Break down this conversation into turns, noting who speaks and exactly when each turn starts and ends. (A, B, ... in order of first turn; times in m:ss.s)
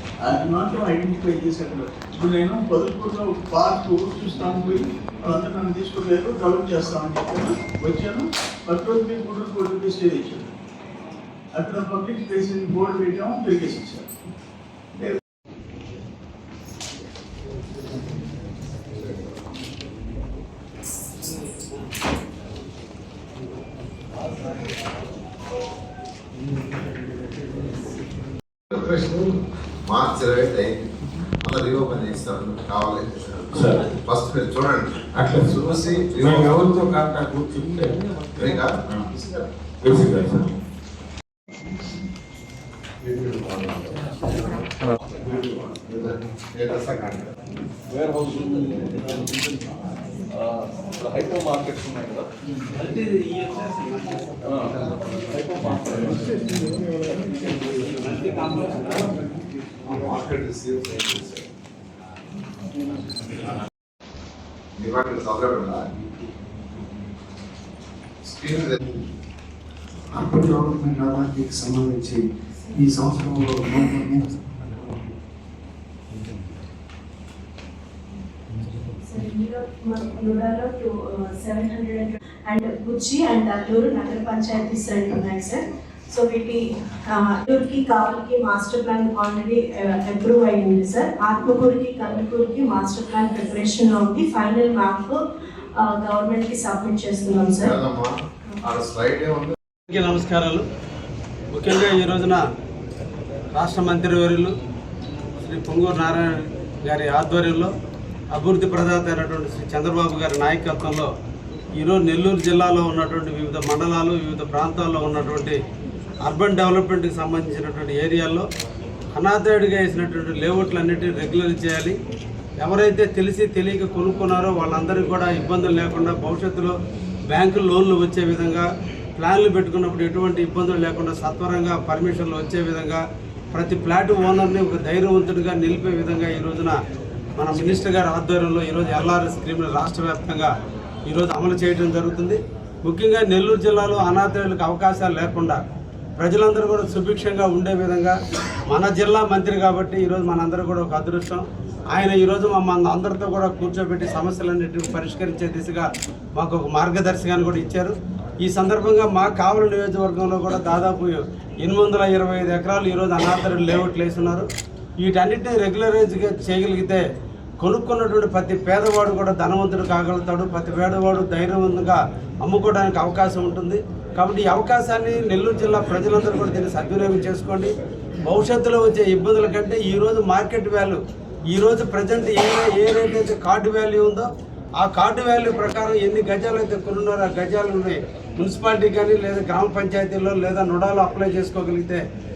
0:00.2-0:10.5 A
0:11.5-0:14.1 A
0:28.7-0:29.3 B
0:29.8-0:30.9 B
0:31.4-0:36.6 B
0:33.5-0:33.8 C
0:35.1-0:35.6 C
0:36.1-0:38.0 C
0:38.4-0:39.5 B
0:39.8-0:40.4 C
0:43.0-0:44.6 B
0:45.2-0:47.3 B
0:47.9-0:49.4 D
0:50.3-0:52.3 D
0:52.8-0:54.2 E
0:54.4-0:54.8 D
0:55.3-0:58.9 D
0:59.8-1:01.5 B
1:04.8-1:05.8 B
1:08.2-1:08.8 B
1:10.1-1:15.0 F
1:19.0-1:35.2 G
1:35.8-1:37.8 G
1:37.6-1:39.6 B
1:39.9-1:40.6 E
1:41.5-1:42.4 E
1:43.5-1:44.5 E
1:45.4-1:47.7 E
1:48.3-1:51.1 E
1:51.8-1:55.6 E
1:56.2-1:58.5 E
1:59.1-2:02.0 E
2:02.6-2:06.8 E
2:07.3-2:13.0 E
2:13.5-2:16.8 E
2:17.4-2:20.5 E
2:21.1-2:25.6 E
2:26.2-2:44.5 E
2:45.0-2:47.0 E
2:47.6-3:12.0 E